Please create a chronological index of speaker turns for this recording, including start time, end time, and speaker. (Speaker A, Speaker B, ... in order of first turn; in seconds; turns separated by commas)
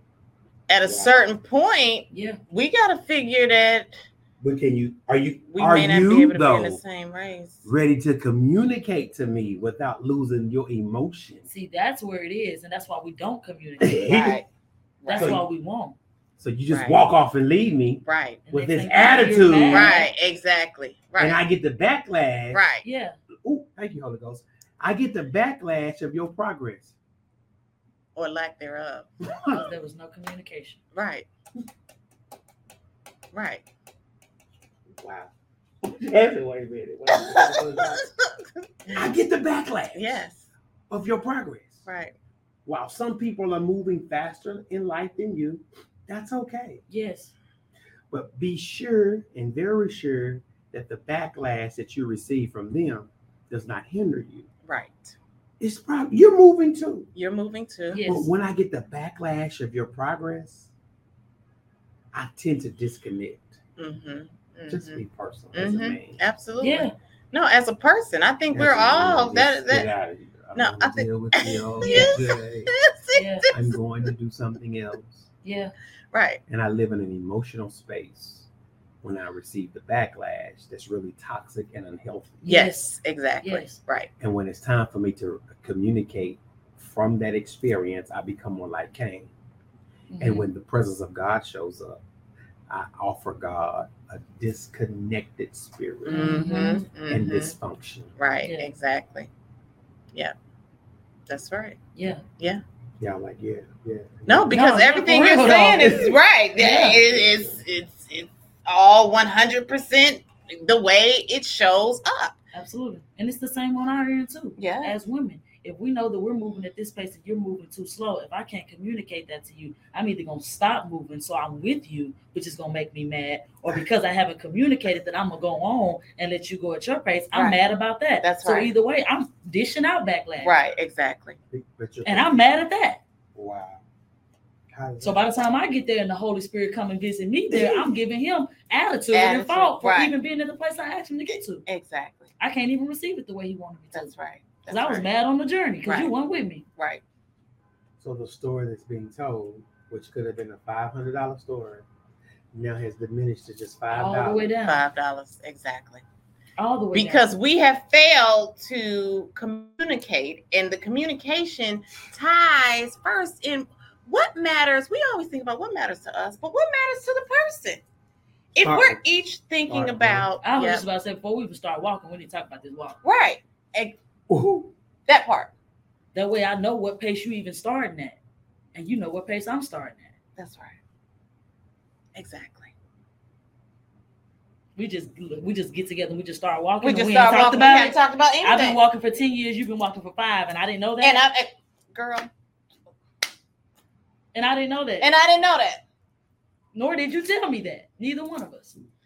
Speaker A: 0.7-3.9, Speaker B: 0.8-1.2, Speaker C: 2.1-2.4, Speaker B: 4.4-6.8, Speaker A: 5.5-7.7, Speaker B: 7.6-11.4, Speaker C: 11.5-14.2, Speaker B: 13.8-14.4, Speaker A: 14.0-14.4, Speaker A: 15.0-15.4, Speaker C: 15.1-15.9, Speaker B: 15.1-15.4, Speaker B: 16.4-20.0, Speaker A: 16.7-17.0, Speaker A: 18.0-18.4, Speaker C: 18.5-20.1, Speaker A: 19.7-21.4, Speaker B: 21.2-22.6, Speaker A: 22.5-22.8, Speaker C: 22.8-23.2, Speaker B: 23.4-26.9, Speaker A: 28.1-29.1, Speaker B: 29.3-29.7, Speaker C: 29.5-30.8, Speaker A: 30.9-31.3, Speaker A: 33.3-33.6, Speaker B: 35.0-35.3, Speaker B: 35.8-38.1, Speaker A: 37.1-38.5, Speaker B: 38.9-40.2, Speaker A: 39.9-40.5, Speaker B: 40.9-41.8, Speaker A: 41.8-42.1, Speaker B: 42.6-46.8, Speaker C: 46.9-47.3, Speaker B: 48.1-54.5, Speaker A: 54.6-55.1, Speaker B: 55.6-57.1, Speaker A: 57.1-58.0, Speaker C: 57.9-58.3, Speaker B: 58.0-60.7, Speaker B: 62.1-63.6, Speaker A: 63.8-65.0, Speaker B: 64.7-66.2, Speaker A: 65.5-69.9, Speaker C: 66.6-66.9, Speaker B: 68.5-72.7, Speaker A: 70.5-74.0, Speaker C: 71.8-72.3, Speaker C: 73.1-73.5, Speaker B: 73.5-75.3, Speaker C: 75.4-75.7, Speaker A: 76.1-76.4, Speaker B: 76.5-78.5, Speaker B: 79.0-82.5, Speaker C: 82.4-83.8, Speaker A: 82.5-84.1, Speaker B: 84.2-89.3, Speaker C: 90.1-90.5, Speaker B: 90.2-92.0, Speaker B: 92.7-96.3, Speaker A: 96.0-97.5, Speaker C: 96.1-96.8, Speaker B: 97.1-98.1, Speaker A: 98.2-99.3, Speaker C: 98.4-98.7, Speaker A: 101.3-101.8, Speaker C: 101.9-102.2, Speaker B: 103.0-104.5, Speaker A: 104.3-112.4, Speaker C: 104.5-107.0, Speaker B: 105.8-106.1, Speaker C: 112.5-130.5, Speaker A: 114.6-115.0, Speaker A: 127.3-127.6, Speaker A: 128.2-128.7, Speaker A: 130.4-131.4, Speaker B: 131.5-132.6, Speaker C: 132.0-133.0, Speaker B: 133.3-133.8, Speaker B: 134.7-135.3, Speaker C: 135.0-141.7, Speaker B: 137.5-137.9, Speaker A: 139.1-140.1, Speaker A: 141.3-142.3, Speaker C: 142.4-144.1, Speaker A: 143.9-145.1, Speaker C: 144.7-146.6, Speaker A: 145.8-146.1, Speaker A: 146.8-147.0, Speaker B: 148.0-151.8, Speaker B: 152.5-154.5, Speaker C: 153.9-154.8, Speaker A: 154.6-156.0, Speaker C: 156.6-157.3, Speaker A: 156.9-167.8, Speaker A: 168.5-170.8, Speaker B: 168.6-169.0, Speaker B: 169.7-170.3, Speaker C: 170.4-173.0, Speaker A: 173.0-174.0, Speaker B: 174.3-174.7, Speaker A: 175.1-175.5, Speaker C: 176.1-178.2, Speaker C: 178.7-180.1, Speaker A: 180.4-180.8, Speaker A: 182.1-182.7, Speaker C: 184.8-191.2, Speaker A: 186.8-188.8, Speaker A: 191.0-192.3, Speaker C: 194.3-195.1, Speaker A: 195.0-195.8, Speaker C: 196.7-198.8